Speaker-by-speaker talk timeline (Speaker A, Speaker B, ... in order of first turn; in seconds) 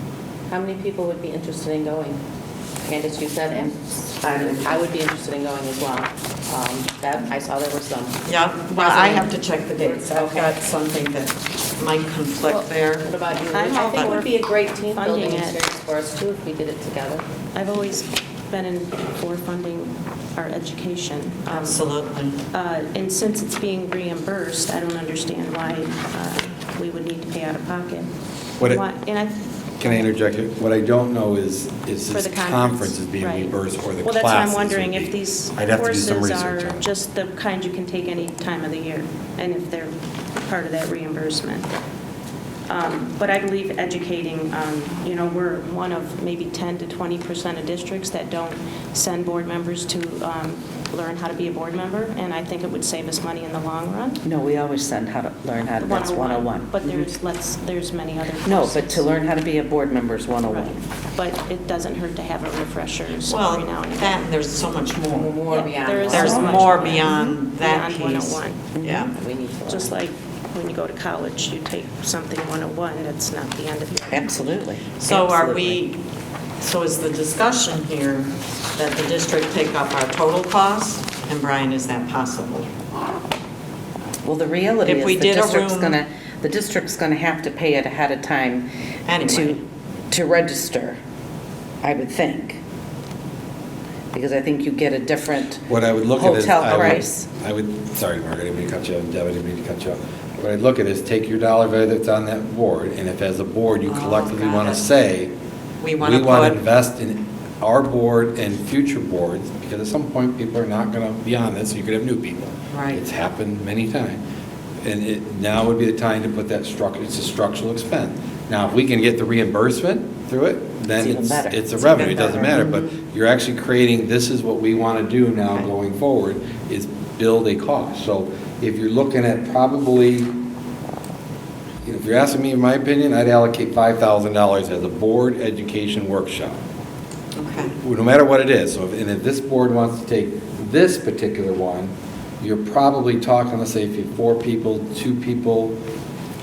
Speaker A: 0.5-2.2, 2.9-10.6, 13.0-17.2, 65.1-67.2, 69.0-70.0
Speaker B: 4.2-4.8, 8.3-13.1, 21.5-22.4, 63.2-69.1, 75.0-76.0, 76.6-82.7, 84.8-86.0, 89.1-89.6, 103.9-104.8, 105.8-106.6, 112.7-113.0, 121.8-122.9, 137.4-137.7
Speaker C: 13.5-15.6, 17.5-21.9, 22.5-30.1, 32.1-41.7, 42.7-54.2, 55.8-59.0, 60.4-64.3, 65.8-68.7, 69.7-74.4
Speaker D: 29.8-36.9, 95.7-105.3, 106.0-114.2, 114.8-130.4, 131.8-136.6, 137.7-145.8
Speaker E: 54.2-56.8, 58.4-60.8, 66.1-66.6, 68.8-69.1, 74.1-75.8, 84.2-88.7, 89.2-89.6, 90.1-91.0, 91.8-92.6, 94.1-97.3, 121.0-121.7